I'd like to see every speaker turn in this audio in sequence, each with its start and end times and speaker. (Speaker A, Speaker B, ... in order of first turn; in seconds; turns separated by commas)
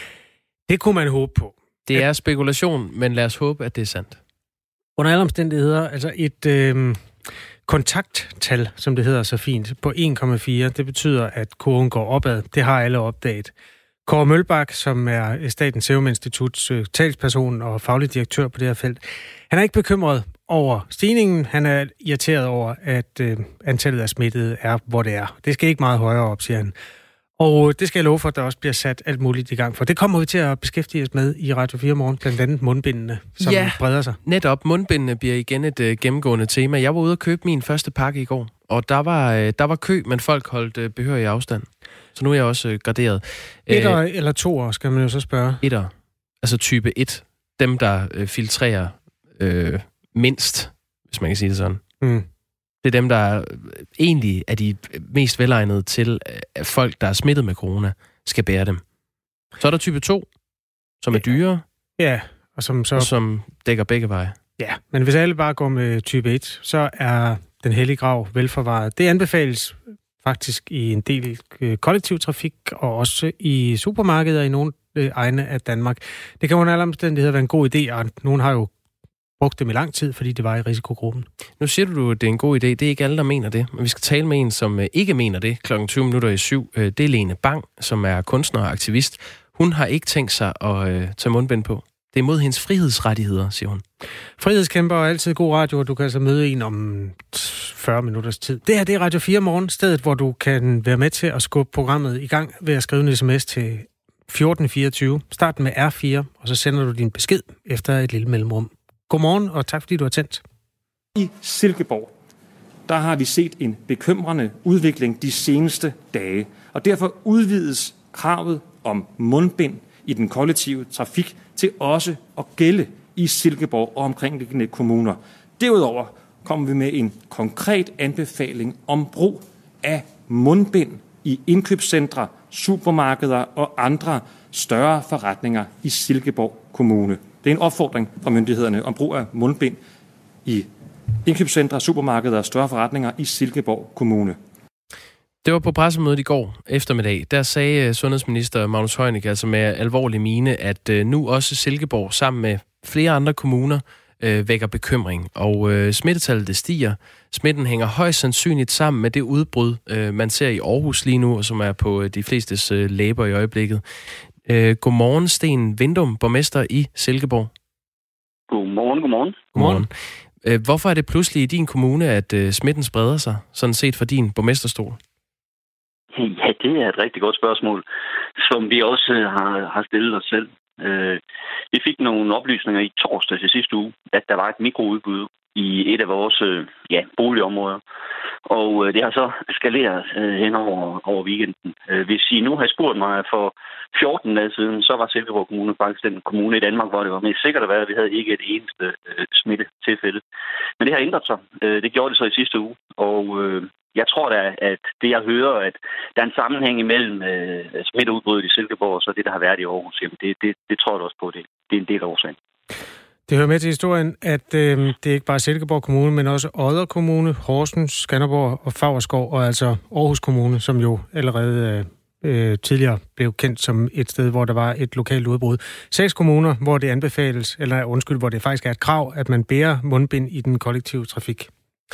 Speaker A: 0.7-2.0, Speaker B: 1.9-4.2, Speaker A: 5.0-7.1, Speaker A: 7.7-13.5, Speaker A: 14.1-26.8, Speaker A: 27.4-34.2, Speaker B: 33.4-44.0, Speaker A: 43.7-45.6, Speaker B: 45.6-51.8, Speaker A: 52.0-52.3, Speaker B: 52.8-58.8, Speaker B: 59.6-60.3, Speaker B: 61.0-61.6, Speaker A: 62.0-63.1, Speaker B: 63.0-64.3, Speaker A: 64.6-78.7, Speaker A: 79.4-81.3, Speaker B: 81.6-93.8, Speaker A: 94.4-110.4, Speaker C: 111.2-112.1, Speaker C: 112.9-139.8, Speaker C: 141.2-144.4, Speaker B: 145.4-163.8, Speaker B: 164.5-167.5, Speaker D: 168.5-169.4, Speaker A: 169.6-169.9, Speaker B: 169.6-169.9, Speaker B: 170.4-175.0, Speaker D: 176.2-177.8, Speaker D: 178.4-181.2, Speaker D: 181.7-187.8, Speaker D: 188.5-200.2, Speaker D: 200.8-212.4, Speaker A: 213.3-231.5